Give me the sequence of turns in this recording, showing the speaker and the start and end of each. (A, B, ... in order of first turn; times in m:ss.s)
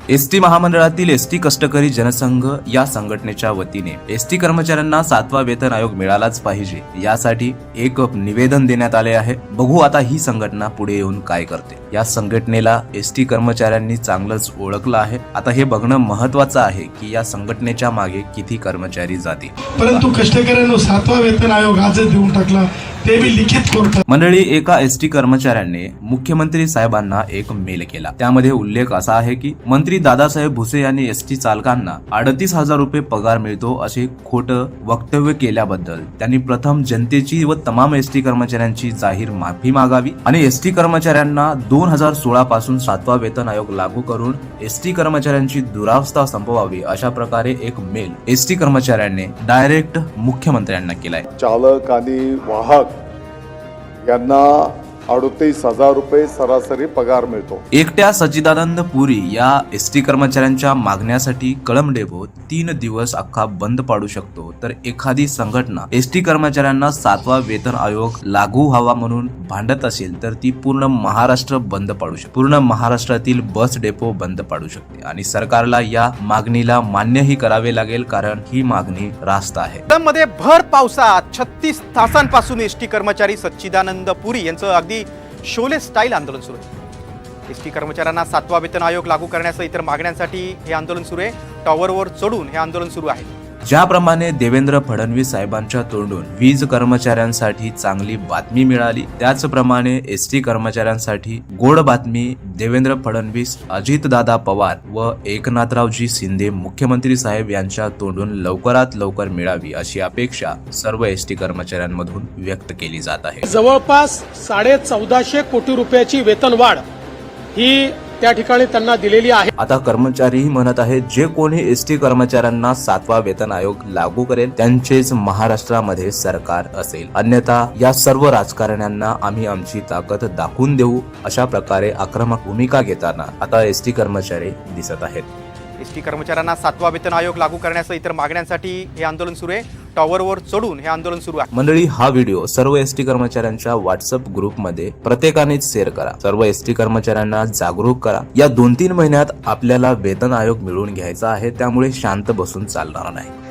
0:00.1-0:19.6 A
0:19.8-0:24.0 B
0:24.1-0:51.3 A
0:51.4-0:52.9 C
0:54.0-0:57.6 C
0:57.7-1:19.8 A
1:19.9-1:26.7 D
1:27.5-1:33.3 D
1:33.6-1:53.4 A
1:53.4-1:56.8 E
1:57.6-1:59.5 E
1:59.6-2:15.3 A
2:15.8-2:21.5 D
2:21.5-2:33.4 A